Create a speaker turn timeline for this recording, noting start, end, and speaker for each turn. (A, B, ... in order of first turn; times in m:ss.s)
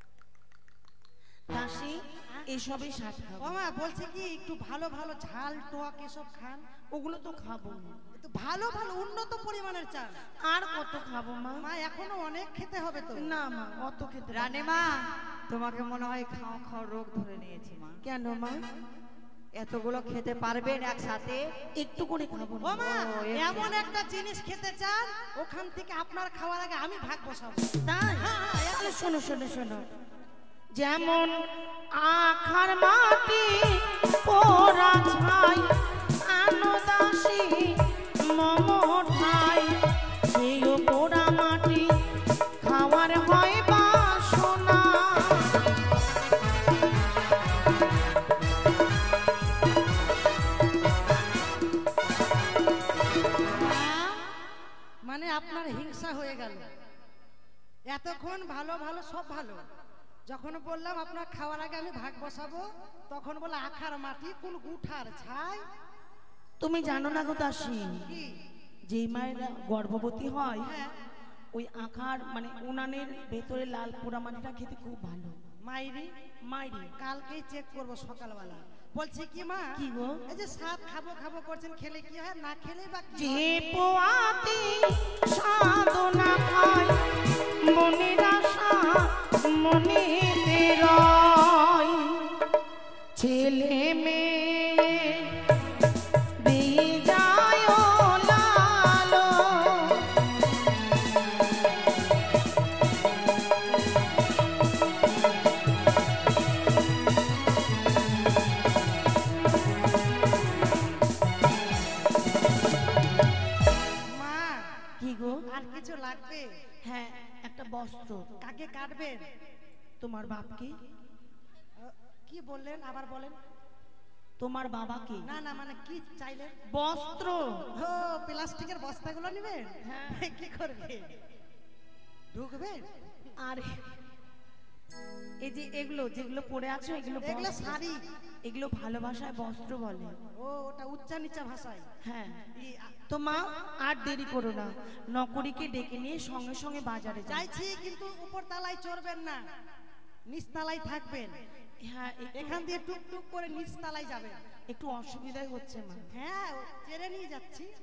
0:01.5-0:03.6 A
0:03.4-0:06.6 B
0:06.9-0:08.0 A
0:08.2-0:10.2 B
0:10.5-0:11.6 A
0:11.6-0:13.3 B
0:13.2-0:14.5 A
0:14.3-0:14.9 C
0:15.5-0:18.0 C
0:18.0-0:18.6 A
0:19.6-0:21.4 C
0:21.8-0:22.9 A
0:22.6-0:28.8 B
0:22.7-0:23.7 C
0:27.8-0:29.9 A
0:30.7-0:31.3 A
0:32.0-0:35.6 A
0:36.2-0:41.9 A
0:42.6-0:45.6 A
0:53.5-0:54.2 B
0:55.0-0:56.6 B
0:57.9-0:59.6 B
1:00.3-1:05.6 B
1:06.6-1:08.1 A
1:08.0-1:08.4 B
1:08.9-1:10.7 A
1:10.6-1:10.9 B
1:11.5-1:15.4 A
1:15.6-1:16.1 B
1:16.5-1:16.9 A
1:17.0-1:19.7 B
1:19.8-1:20.2 A
1:20.3-1:23.6 B
1:23.1-1:27.0 A
1:27.7-1:32.4 A
1:33.2-1:35.4 A
1:36.4-1:40.1 A
1:54.1-1:54.6 B
1:55.0-1:55.4 A
1:55.5-1:56.5 B
1:56.8-1:58.3 A
1:58.4-1:59.2 B
2:00.0-2:00.7 A
2:01.8-2:03.4 B
2:04.4-2:05.3 A
2:05.2-2:06.6 B
2:06.7-2:07.6 A
2:07.8-2:11.1 B
2:09.8-2:10.3 A
2:12.3-2:13.1 B
2:13.4-2:13.9 A
2:15.4-2:17.8 A
2:17.2-2:18.0 B
2:18.4-2:20.2 A
2:20.4-2:21.8 B
2:22.0-2:22.4 A
2:22.6-2:22.9 B
2:23.1-2:27.5 A
2:27.3-2:29.4 B
2:30.3-2:31.4 B
2:31.8-2:32.6 A
2:32.4-2:34.4 B
2:34.7-2:36.1 A
2:36.1-2:37.7 B